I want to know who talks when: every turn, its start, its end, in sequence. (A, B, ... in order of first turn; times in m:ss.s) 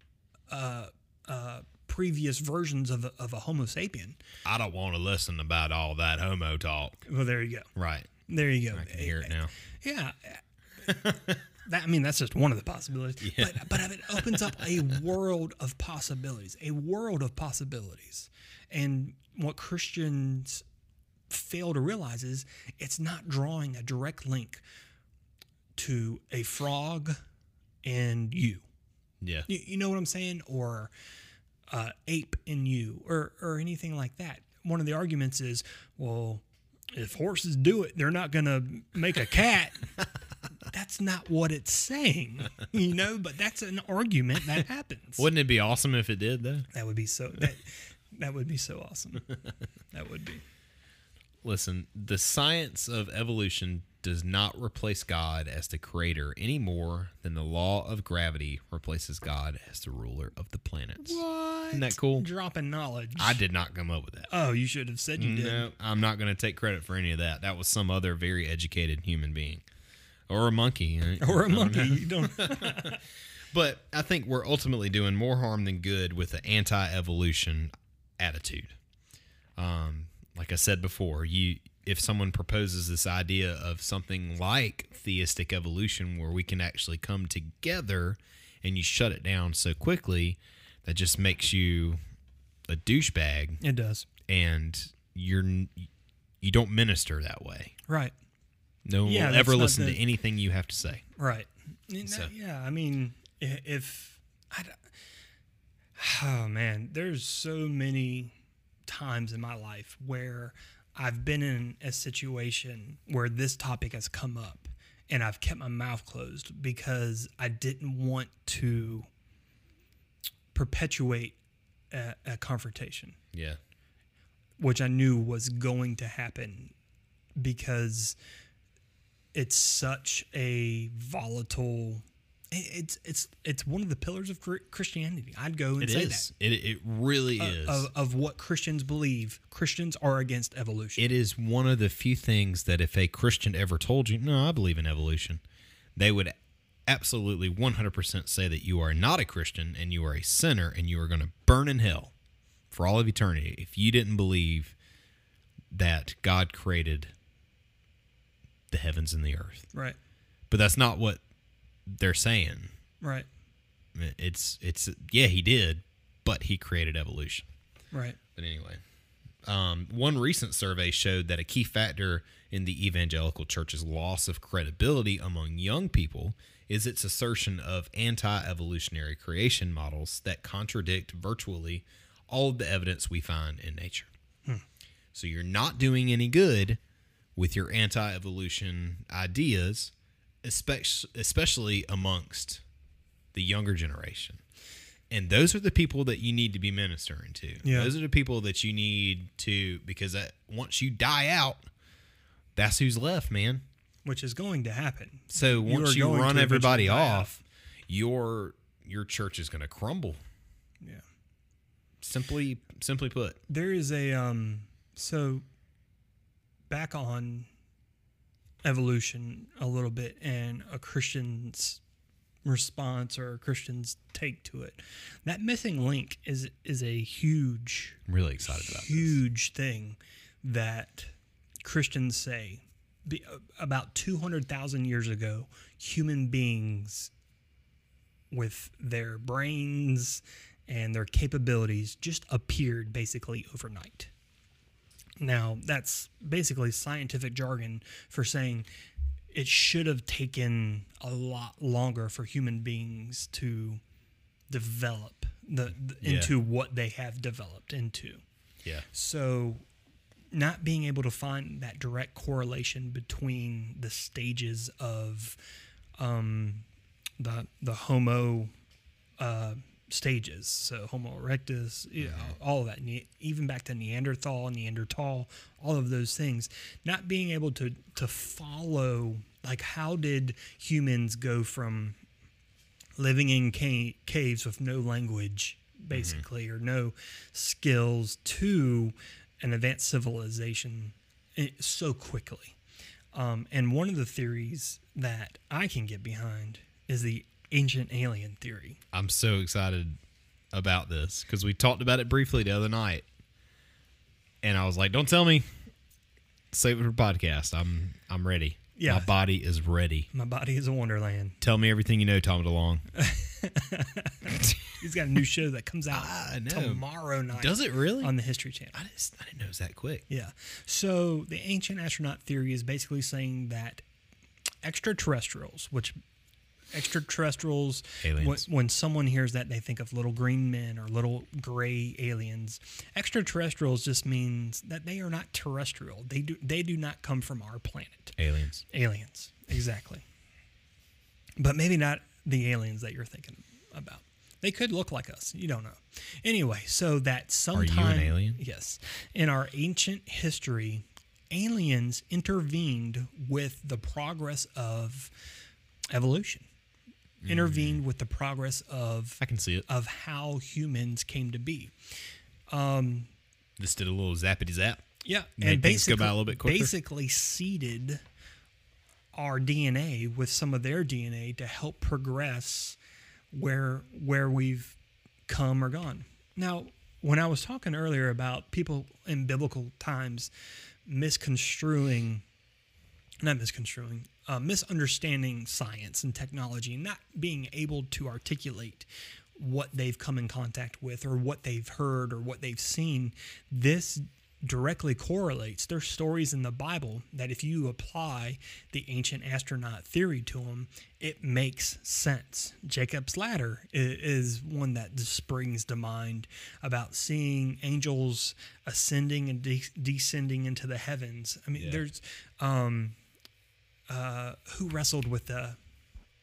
0:00.5-0:04.2 A
0:04.4-0:07.0 B
0:07.1-0:07.7 A
0:07.7-0:08.1 B
0:08.3-0:20.6 A
0:08.7-0:09.5 B
0:13.2-0:14.9 B
0:21.3-0:24.6 A
0:25.8-0:27.2 A
0:27.8-0:28.6 A
0:29.2-0:29.5 B
0:29.5-0:30.9 A
0:31.7-0:39.9 A
0:40.6-0:45.2 A
0:45.2-0:46.7 B
0:46.7-0:49.3 A
0:49.9-0:50.4 A
0:51.4-1:02.2 B
1:01.0-1:03.4 A
1:03.2-1:04.3 B
1:04.3-1:05.7 A
1:05.2-1:09.6 B
1:10.3-1:13.0 B
1:11.2-1:13.0 A
1:13.5-1:18.8 B
1:19.6-1:32.0 B
1:32.7-1:33.6 B
1:33.6-1:34.0 A
1:34.3-1:35.9 B
1:36.4-1:37.7 B
1:37.9-1:38.1 A
1:38.8-1:41.0 B
1:39.0-1:40.0 A
1:41.2-1:44.9 A
1:42.0-1:42.3 B
1:46.0-1:48.3 A
1:48.9-1:59.1 A
2:00.5-2:01.4 A
2:01.9-2:03.2 A
2:03.3-2:03.6 B
2:04.6-2:06.7 A
2:07.4-2:08.2 A
2:09.3-2:16.2 A
2:15.8-2:17.9 B
2:17.4-2:21.1 A
2:21.0-2:25.4 B
2:26.0-2:26.3 B
2:26.9-2:32.1 B
2:32.7-2:34.7 B
2:35.7-2:37.1 B
2:38.7-2:39.7 B
2:40.5-2:41.2 B
2:41.9-2:42.7 B
2:43.0-2:43.3 A
2:43.9-2:47.5 B
2:47.9-2:48.2 A
2:48.3-2:48.8 B
2:49.4-3:04.1 B
3:05.1-3:06.8 B
3:07.4-3:09.9 B
3:10.4-3:12.6 B
3:13.3-3:14.4 B
3:15.1-3:21.7 B
3:17.6-3:17.9 A
3:22.6-3:23.6 B
3:24.0-3:27.4 A
3:25.3-3:30.2 B
3:32.0-3:33.4 B
3:33.5-3:35.4 A
3:36.7-3:37.5 A
3:38.6-3:41.8 A
3:42.4-3:51.1 A
3:48.1-3:49.2 B
3:51.6-3:57.1 A
3:58.3-4:04.1 A
4:05.2-4:08.7 A
4:09.3-4:13.8 A
4:14.5-4:18.2 A
4:16.0-4:16.3 B
4:18.9-4:19.6 A
4:20.3-4:25.4 A
4:26.0-4:26.7 A
4:27.2-4:28.5 A
4:29.2-4:42.0 A
4:32.0-4:32.3 B
4:43.0-4:52.6 A
4:45.9-4:46.2 B
4:53.1-4:58.8 A
4:58.9-5:00.0 B
5:00.5-5:03.0 B
5:04.4-5:05.5 B
5:06.5-5:10.1 B
5:08.8-5:09.1 A
5:10.1-5:11.4 A
5:11.4-5:12.8 B
5:12.9-5:18.7 A
5:15.9-5:18.1 B
5:18.7-5:20.0 B
5:20.1-5:23.8 A
5:24.6-5:26.0 A
5:26.7-5:38.2 A
5:28.0-5:28.5 B
5:38.2-5:38.6 B
5:38.7-5:40.0 A
5:41.4-5:55.1 A
5:47.5-5:48.4 B
5:55.9-5:56.5 A
5:57.2-5:57.8 B
5:57.2-6:01.7 A
5:59.2-5:59.6 B
6:02.5-6:03.1 A
6:03.6-6:04.8 B
6:05.0-6:08.0 A
6:05.4-6:06.7 B
6:09.1-6:12.8 A
6:13.3-6:14.8 A
6:15.3-6:20.3 A
6:20.8-6:22.2 A
6:23.2-6:53.0 A
6:51.6-6:51.8 B
6:53.9-6:55.6 A